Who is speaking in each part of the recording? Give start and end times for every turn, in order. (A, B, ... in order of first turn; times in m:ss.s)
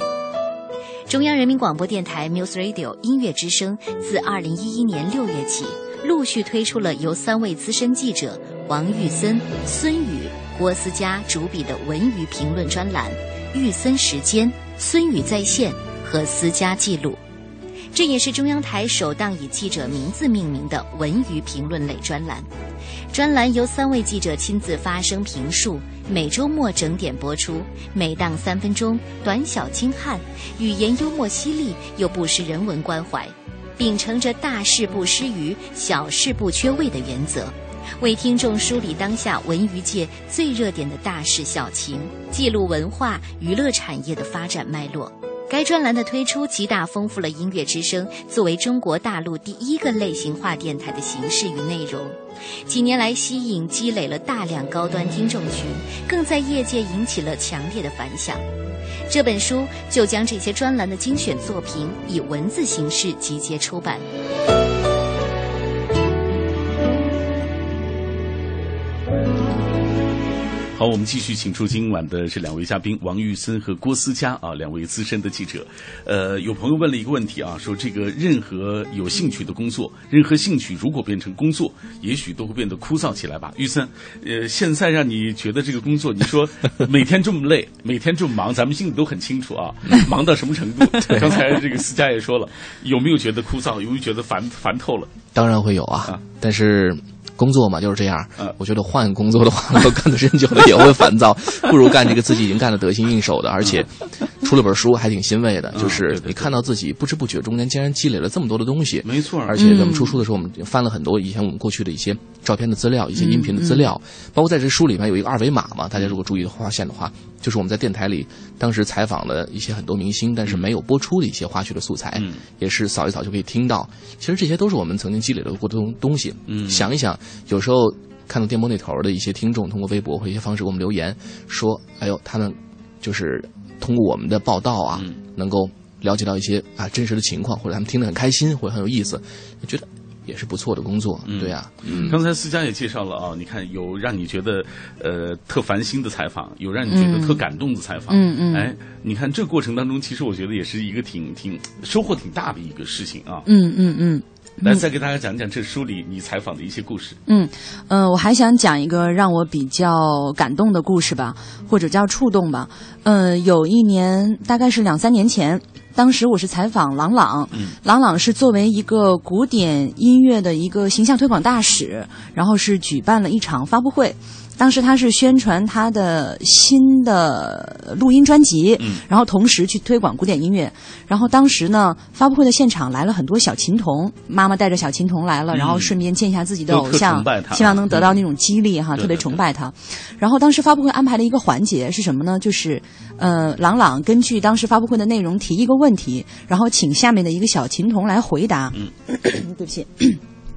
0:01.1-0:17.2 A
0:17.9-0:22.5 A
0:23.1-0:58.4 A
0:59.1-1:04.0 A
1:10.7-1:35.1 B
1:31.0-1:31.3 C
1:35.3-1:43.9 C
1:44.4-2:22.2 C
1:45.7-1:46.5 B
1:49.0-1:49.6 B
1:49.6-1:50.2 D
1:53.2-1:53.9 D
2:02.2-2:02.4 B
2:06.5-2:06.9 B
2:21.3-2:33.5 B
2:26.9-2:27.4 D
2:28.1-2:28.7 D
2:33.4-2:34.8 D
2:34.6-2:37.2 B
2:37.3-3:20.2 D
3:05.5-3:05.9 B
3:06.7-3:08.2 B
3:09.0-3:09.4 B